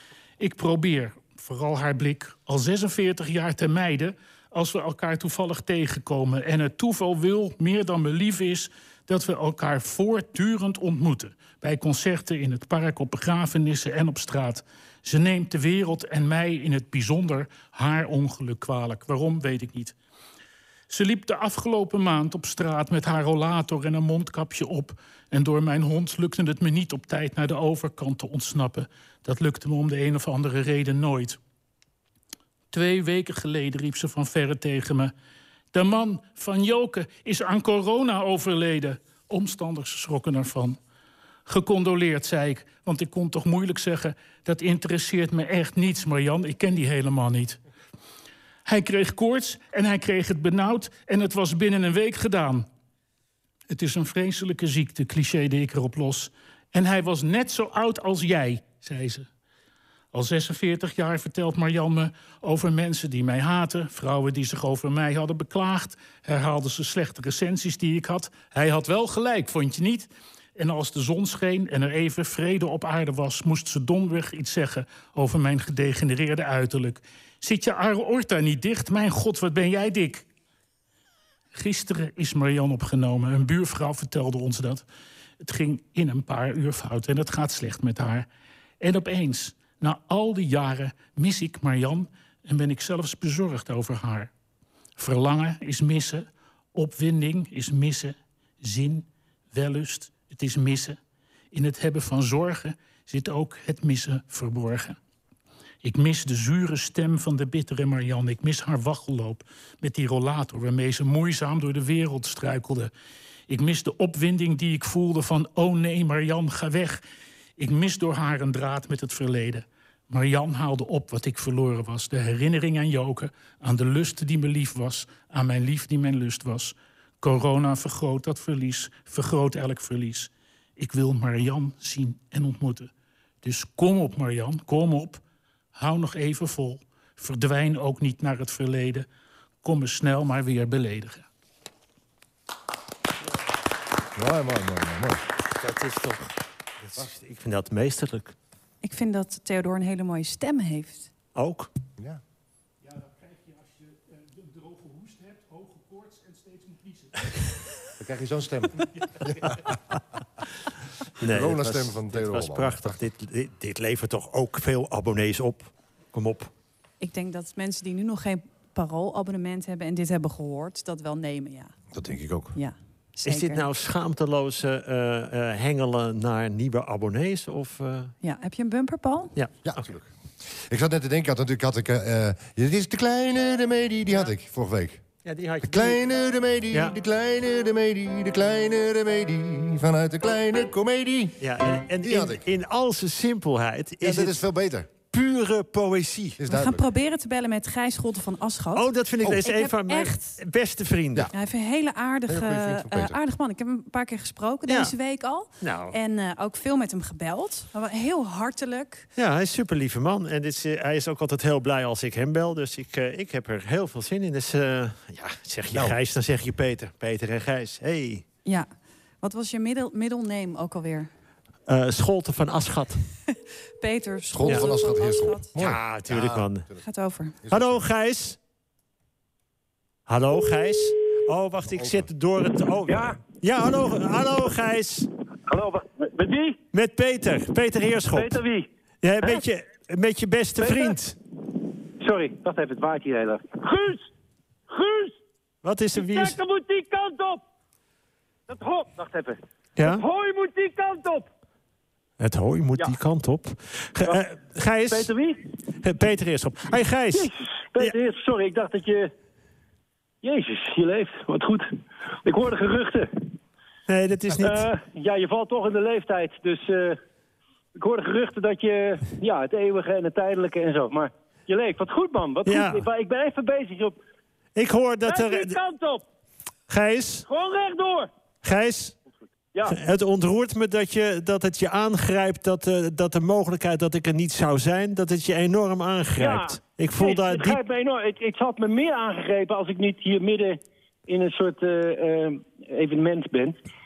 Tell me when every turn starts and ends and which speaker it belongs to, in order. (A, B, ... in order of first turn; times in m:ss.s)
0:00.4-0:20.0 A
0:20.9-0:31.4 A
0:32.7-0:35.1 A
0:35.7-0:40.8 A
0:41.5-0:47.6 A
0:48.6-0:52.7 A
0:53.7-0:59.3 A
1:00.1-1:20.3 A
1:21.5-1:24.9 A
1:25.4-1:28.3 A
1:28.8-1:34.3 A
1:35.0-1:41.0 A
1:41.5-1:45.0 A
1:45.8-1:52.9 A
1:53.5-1:57.0 A
1:57.6-2:12.9 A
2:13.4-2:15.2 A
2:15.7-2:19.1 A
2:19.6-2:21.3 A
2:24.2-2:25.2 B
2:25.6-2:28.3 C
2:28.8-2:31.1 D
2:31.4-2:31.7 C
2:32.8-2:37.5 A
2:38.0-2:39.7 B
2:39.3-2:39.6 A
2:41.2-2:42.9 B
2:41.2-2:46.5 C
2:47.0-2:51.7 D
2:51.9-2:52.6 B
2:52.5-2:53.6 D
2:53.2-2:58.1 C
2:58.2-2:59.3 D
2:59.6-3:05.0 B
3:05.2-3:06.0 C
3:05.6-3:11.4 B
3:11.4-3:14.4 C
3:12.0-3:12.4 B
3:14.0-3:14.9 B
3:15.1-3:16.4 C
3:16.4-3:16.8 B
3:16.5-3:18.9 D
3:18.8-3:21.3 C
3:19.4-3:20.4 D
3:21.3-3:29.1 D
3:22.3-3:23.2 B
3:24.7-3:24.9 C
3:25.6-3:26.0 C
3:29.2-3:38.2 C
3:39.2-3:41.1 D
3:41.7-3:43.0 C
3:43.8-3:45.5 D
3:44.3-3:46.8 B
3:45.6-3:46.7 C
3:46.8-3:47.4 D
3:47.4-3:47.8 B
3:47.5-3:48.4 C
3:50.1-3:55.1 C
3:51.7-3:52.1 B
3:52.9-3:53.2 E
3:55.5-3:56.6 E
3:56.7-3:58.4 C
3:58.1-3:58.7 E
3:59.0-4:01.2 C
4:00.6-4:01.0 E
4:02.0-4:04.1 E
4:04.7-4:05.2 E
4:05.6-4:06.4 C
4:06.0-4:07.4 E
4:08.5-4:11.3 E
4:09.8-4:10.0 C
4:12.2-4:15.1 C
4:14.9-4:15.4 E
4:15.8-4:17.9 C
4:17.1-4:19.1 E
4:20.2-4:21.7 E
4:22.2-4:23.3 E
4:23.9-4:24.7 C
4:24.4-4:27.0 E
4:27.8-4:34.0 E
4:32.5-4:32.9 C
4:34.6-4:35.6 C
4:35.0-4:36.0 E
4:36.7-4:37.3 C
4:37.3-4:38.1 E
4:38.4-4:39.0 C
4:39.7-4:47.6 C
4:46.2-4:53.6 E